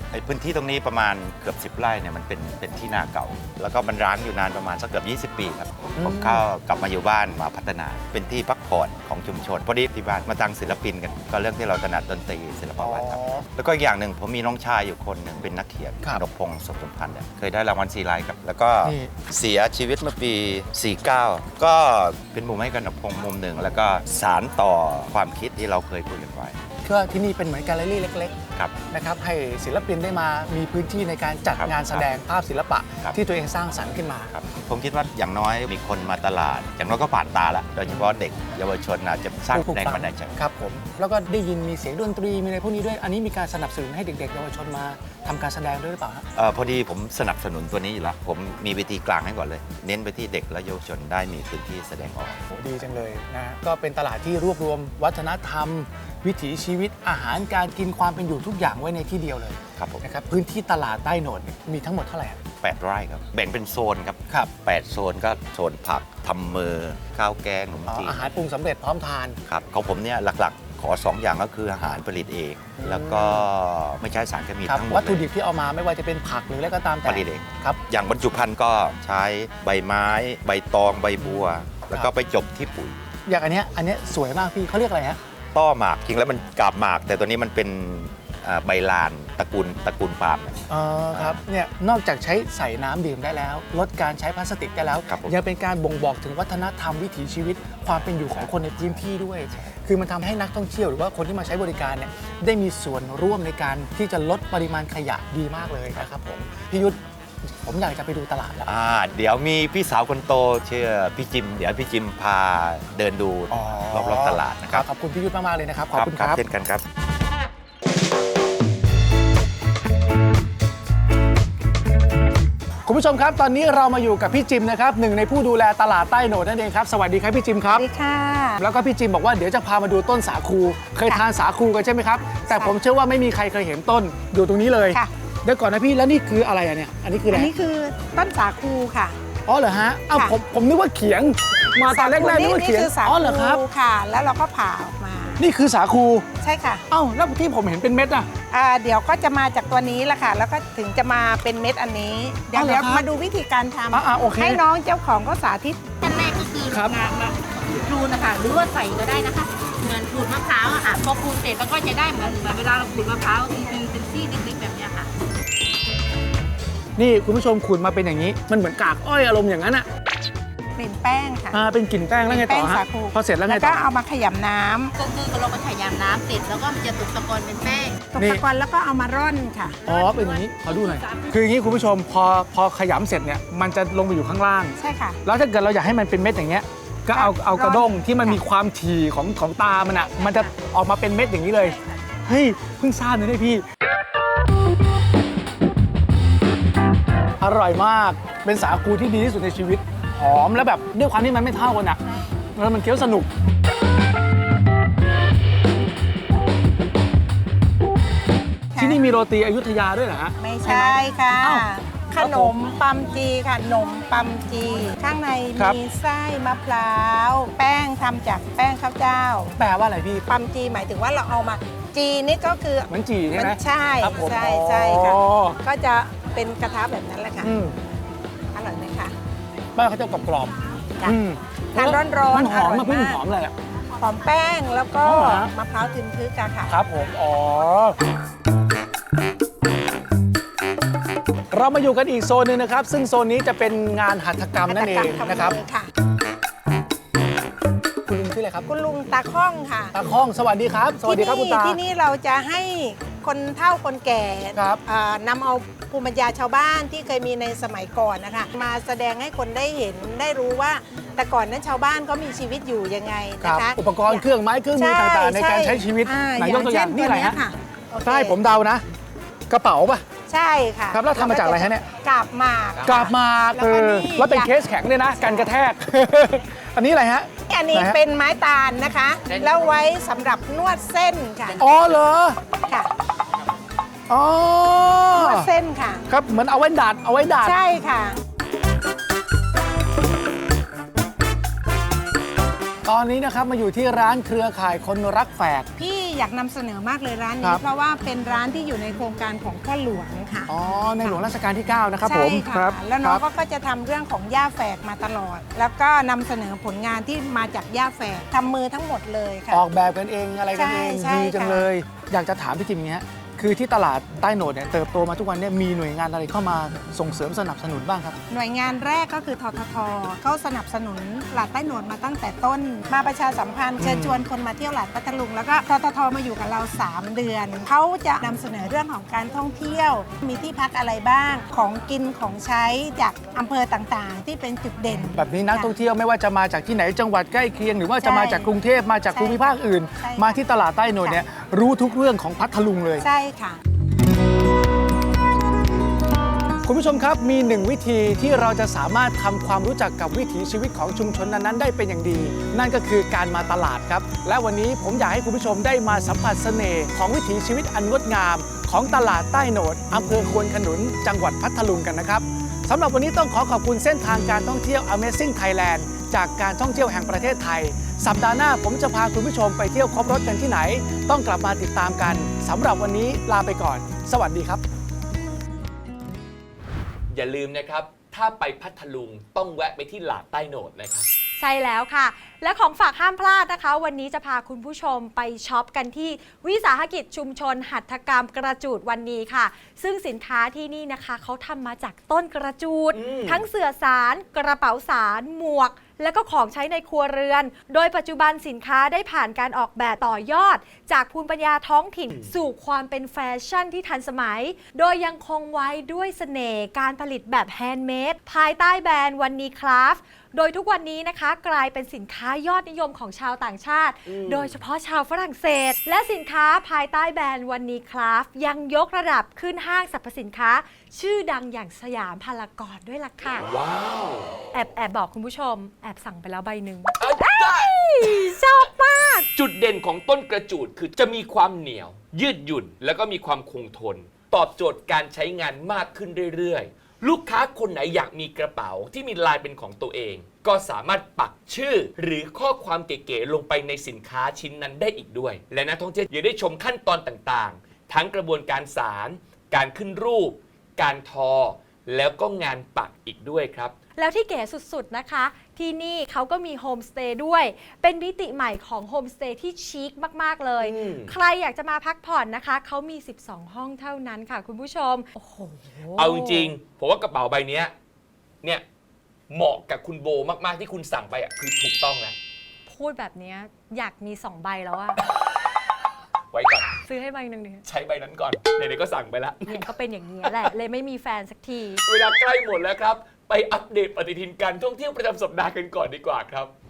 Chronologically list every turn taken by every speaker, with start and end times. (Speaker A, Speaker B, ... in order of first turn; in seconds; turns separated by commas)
Speaker A: 0.1-26.6, Speaker B: 6.0-6.4, Speaker B: 12.8-13.4, Speaker B: 18.9-19.1, Speaker B: 26.8-34.3, Speaker A: 28.6-28.8, Speaker A: 31.5-32.1, Speaker A: 34.3-40.4, Speaker B: 39.5-46.2, Speaker A: 46.4-52.4, Speaker B: 52.5-62.4, Speaker A: 59.8-60.0, Speaker A: 62.5-68.2, Speaker B: 67.9-69.4, Speaker A: 69.5-75.2, Speaker B: 72.8-73.4, Speaker B: 74.7-77.8, Speaker A: 77.0-83.1, Speaker B: 83.2-85.2, Speaker A: 85.5-91.4, Speaker B: 90.7-107.0, Speaker A: 95.1-95.3, Speaker A: 98.3-99.0, Speaker B: 107.6-108.7, Speaker A: 108.7-114.9, Speaker B: 113.5-116.4, Speaker A: 115.9-116.8, Speaker B: 122.9-127.8, Speaker C: 127.7-128.6, Speaker B: 128.6-137.5, Speaker C: 132.5-132.8, Speaker C: 137.3-139.2, Speaker B: 139.5-143.6, Speaker C: 141.9-145.4, Speaker B: 145.4-146.2, Speaker C: 146.4-146.8, Speaker B: 146.9-148.3, Speaker C: 148.5-155.9, Speaker B: 152.5-153.1, Speaker B: 153.9-154.6, Speaker D: 156.0-165.1, Speaker B: 156.7-157.0, Speaker B: 167.0-169.9, Speaker C: 170.8-171.6, Speaker B: 171.5-173.8, Speaker C: 172.2-174.9, Speaker D: 174.9-178.1, Speaker C: 178.1-179.8, Speaker B: 178.2-178.4, Speaker D: 179.9-181.4, Speaker B: 179.9-193.6, Speaker C: 184.8-185.2, Speaker C: 187.1-188.4, Speaker B: 197.4-202.0, Speaker B: 202.6-203.3, Speaker C: 208.8-209.1, Speaker B: 208.8-212.5, Speaker C: 210.4-219.6, Speaker B: 219.6-220.2, Speaker C: 220.3-227.5, Speaker B: 222.9-225.6, Speaker B: 227.4-227.8, Speaker C: 228.5-229.2, Speaker B: 229.8-233.6, Speaker C: 231.8-233.2, Speaker C: 234.0-236.8, Speaker B: 235.0-235.5, Speaker B: 236.7-238.0, Speaker B: 241.5-245.6, Speaker C: 244.7-245.9, Speaker B: 248.1-248.7, Speaker C: 248.7-250.1, Speaker B: 249.9-251.8, Speaker C: 251.0-268.4, Speaker B: 254.6-254.8, Speaker B: 263.4-267.4, Speaker B: 268.0-268.8, Speaker B: 269.5-270.0, Speaker C: 270.3-274.5, Speaker B: 270.9-271.9, Speaker B: 272.8-278.0, Speaker C: 275.2-275.5, Speaker C: 277.5-281.6, Speaker B: 281.6-282.4, Speaker B: 284.1-285.5, Speaker C: 285.1-286.0, Speaker B: 286.1-287.5, Speaker C: 287.4-288.2, Speaker B: 292.9-295.7, Speaker C: 295.8-300.5, Speaker B: 300.5-303.2, Speaker C: 302.0-309.6, Speaker B: 309.5-318.2, Speaker C: 310.5-311.7, Speaker C: 318.3-335.7, Speaker B: 323.8-324.2, Speaker B: 335.1-343.0, Speaker C: 338.0-338.5, Speaker C: 339.1-340.4, Speaker C: 343.0-343.6, Speaker B: 346.6-374.6, Speaker E: 377.1-381.1, Speaker F: 381.4-423.5, Speaker E: 392.9-393.5, Speaker E: 414.1-414.6, Speaker E: 423.4-424.3, Speaker F: 424.5-429.3, Speaker E: 427.0-428.4, Speaker E: 429.3-453.7, Speaker F: 454.0-466.5, Speaker E: 460.6-461.1, Speaker E: 466.0-467.7, Speaker E: 469.3-472.2, Speaker F: 472.7-475.0, Speaker E: 476.3-476.8, Speaker F: 476.9-477.6, Speaker E: 477.6-479.7, Speaker F: 479.5-481.8, Speaker E: 480.2-480.5, Speaker E: 481.9-486.5